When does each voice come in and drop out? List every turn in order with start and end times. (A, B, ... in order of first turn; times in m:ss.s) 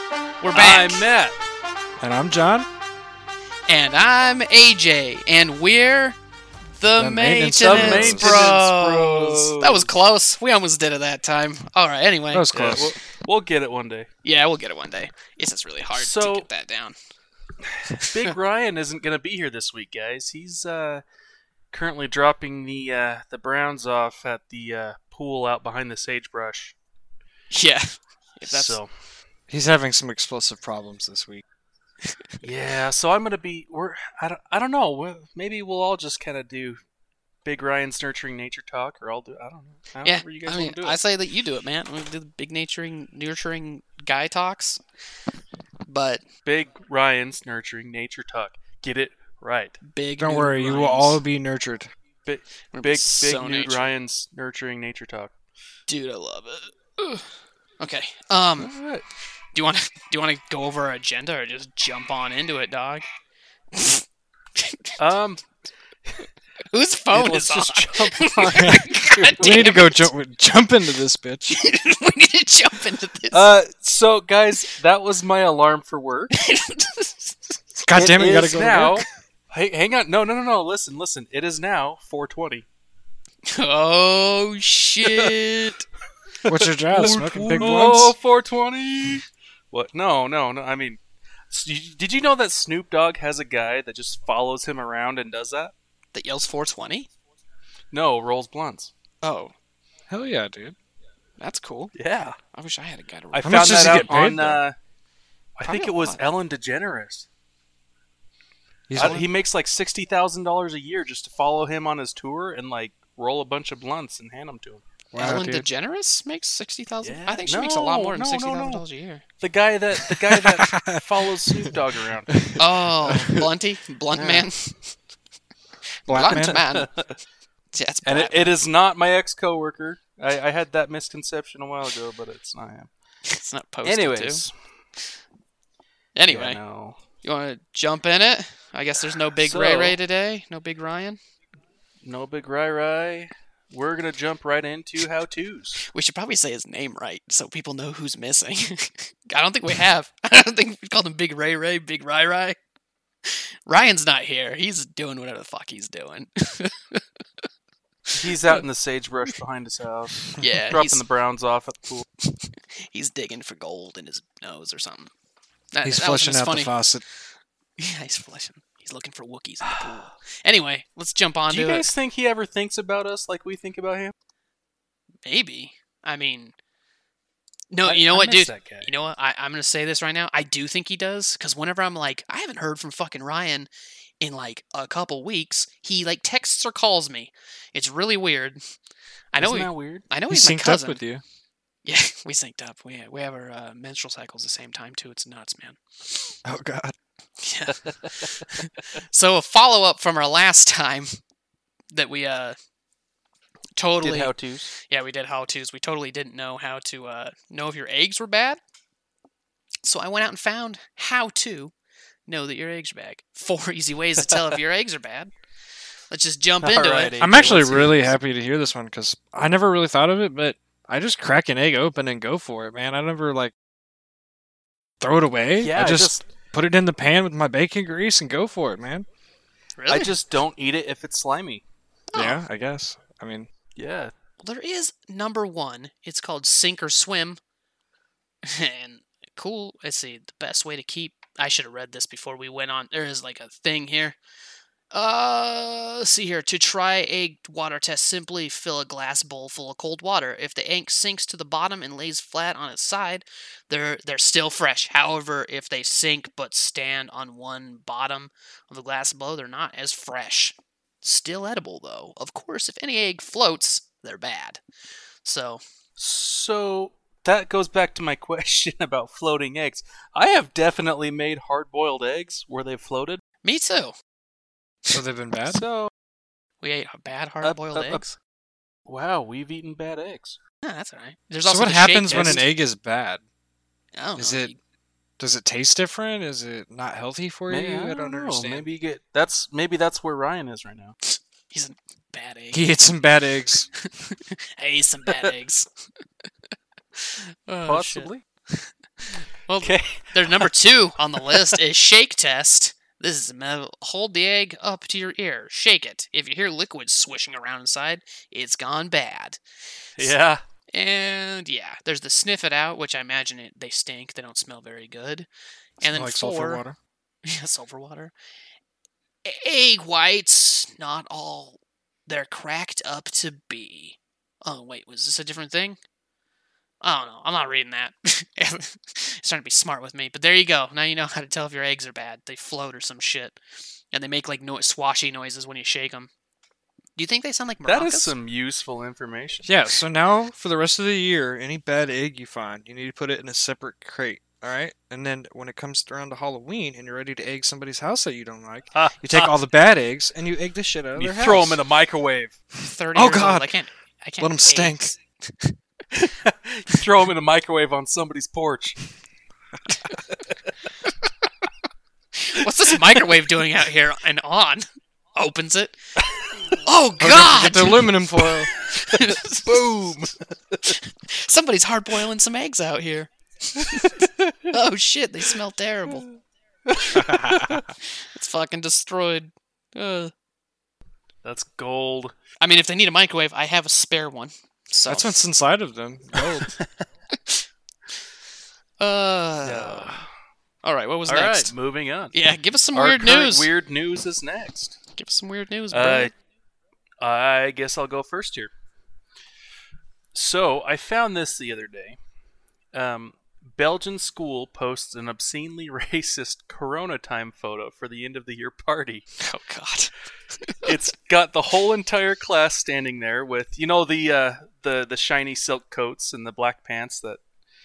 0:00.4-0:01.0 A
0:00.5-0:01.4 B
0:02.0-0:02.7 C
0:03.7-0:06.2 A
0:06.7-0:12.9 A
0:07.0-0:08.3 C
0:07.6-0:09.9 B
0:12.3-0:12.9 C
0:12.5-0:14.1 B
0:14.2-0:17.0 A
0:15.9-0:16.5 B
0:17.6-0:21.0 B
0:17.9-0:18.3 A
0:21.7-0:26.7 B
0:27.5-0:28.8 A
0:28.4-0:28.9 B
0:29.5-0:31.4 C
0:32.4-0:36.8 B
0:37.4-0:41.0 B
0:40.0-0:44.8 A
0:45.9-0:46.2 A
0:46.4-0:49.8 B
0:49.8-0:51.2 A
0:50.2-0:51.9 C
0:52.2-0:55.3 B
0:52.7-0:53.9 A
0:55.9-0:57.3 A
0:57.8-0:58.7 A
0:58.6-0:59.0 B
0:59.5-1:03.0 A
1:03.7-1:04.0 A
1:04.6-1:05.0 A
1:05.0-1:05.4 B
1:06.7-1:10.1 A
1:07.1-1:09.5 B
1:08.5-1:11.6 C
1:11.5-1:13.5 A
1:13.3-1:16.3 B
1:16.3-1:17.5 A
1:17.8-1:19.0 C
1:18.0-1:22.6 B
1:23.4-1:25.8 A
1:25.0-1:25.3 B
1:26.4-1:31.0 B
1:26.5-1:28.1 C
1:31.5-1:35.7 B
1:36.1-1:37.1 A
1:37.9-1:38.9 B
1:39.2-1:39.5 A
1:40.1-1:40.8 C
1:41.4-1:41.9 A
1:41.9-1:42.4 B
1:42.5-1:43.8 A
1:43.3-1:44.8 B
1:43.4-1:44.6 C
1:45.6-1:47.3 B
1:45.6-1:46.2 A
1:48.9-1:49.3 C
1:48.9-1:54.8 B
1:55.1-1:55.7 C
1:55.2-1:59.2 A
1:57.0-1:58.8 B
1:59.4-2:02.3 B
2:00.0-2:01.7 C
2:02.3-2:03.5 C
2:02.6-2:04.9 A
2:04.2-2:04.5 B
2:06.1-2:06.6 C
2:06.1-2:06.9 A
2:06.3-2:07.2 B
2:07.7-2:08.5 A
2:08.0-2:12.9 B
2:13.3-2:14.4 A
2:13.8-2:14.5 B
2:16.1-2:16.6 A
2:16.3-2:17.0 B
2:17.2-2:21.2 A
2:19.4-2:20.0 B
2:22.0-2:25.8 B
2:25.8-2:32.6 A
2:33.2-2:37.0 A
2:38.1-2:42.0 B
2:38.2-2:38.6 A
2:40.4-2:41.0 A
2:42.2-2:45.1 A
2:45.7-2:46.7 A
2:45.8-2:47.0 C
2:47.8-2:51.8 A
2:49.6-2:50.1 B
2:51.5-2:54.1 B
2:55.2-2:56.5 A
2:57.7-3:03.7 A
2:57.8-2:58.9 B
3:04.2-3:08.6 A
3:09.3-3:11.0 A
3:09.4-3:10.0 B
3:10.3-3:11.2 C
3:11.8-3:16.3 A
3:16.4-3:17.0 C
3:17.4-3:21.1 A
3:21.9-3:22.6 A
3:23.8-3:28.6 A
3:24.0-3:24.7 B
3:29.8-3:31.7 A
3:32.3-3:35.3 A
3:36.1-3:37.9 A
3:36.6-3:38.1 B
3:37.2-3:43.5 C
3:45.0-3:49.0 C
3:45.6-3:46.2 B
3:49.8-3:50.1 A
3:49.9-3:51.6 B
3:52.1-3:52.4 A
3:52.1-3:53.5 C
3:53.8-3:54.1 B
3:54.4-3:57.4 A
3:58.4-4:04.2 A
4:04.9-4:24.6 A
4:25.2-4:25.6 A
4:26.0-4:33.2 B
4:33.4-4:34.0 A
4:34.9-4:35.6 C
4:35.5-4:35.9 B
4:36.6-4:38.2 A
4:37.4-4:38.0 B
4:38.8-4:40.4 B
4:40.6-4:42.4 A
4:41.4-4:43.2 C
4:42.1-4:42.5 B
4:44.0-4:44.6 A
4:44.2-4:44.5 C
4:45.2-4:48.6 C
4:47.5-4:51.0 B
4:51.0-4:52.7 A
4:52.5-4:53.7 C
4:53.8-4:55.7 A
4:57.0-5:09.4 A
4:57.7-4:58.2 B
4:59.6-5:00.5 B
5:01.2-5:01.4 B
5:10.0-5:10.4 B
5:10.7-5:15.3 A
5:15.8-5:16.6 A
5:15.8-5:16.8 C
5:17.2-5:18.1 A
5:19.2-5:25.8 A
5:26.8-5:33.4 A
5:33.9-5:36.1 A
5:37.0-5:38.1 A
5:37.6-5:39.5 B
5:39.4-5:51.6 C
5:48.7-5:49.3 B
5:50.9-5:52.3 B
5:52.6-5:55.6 A
5:52.9-5:53.6 C
5:54.2-5:54.9 C
5:55.9-5:58.8 B
6:02.2-6:05.8 A
6:06.6-6:08.0 A
6:07.0-6:08.5 C
6:08.6-6:09.7 A
6:08.9-6:10.7 B
6:10.6-6:16.1 A
6:13.6-6:14.5 B
6:16.7-6:17.6 B
6:16.9-6:17.7 C
6:17.9-6:20.1 A
6:21.2-6:22.1 B
6:22.4-6:25.2 A
6:24.9-6:26.5 C
6:26.2-6:26.7 B
6:27.1-6:27.4 A
6:28.8-6:30.0 A
6:29.4-6:30.1 B
6:30.6-6:31.5 A
6:31.1-6:32.1 B
6:32.1-6:33.5 A
6:32.7-6:34.8 B
6:34.9-6:36.1 A
6:35.7-6:36.1 B
6:37.0-6:38.5 B
6:40.1-6:42.0 B
6:42.7-6:49.1 B
6:49.2-6:50.7 A
6:50.6-6:57.2 B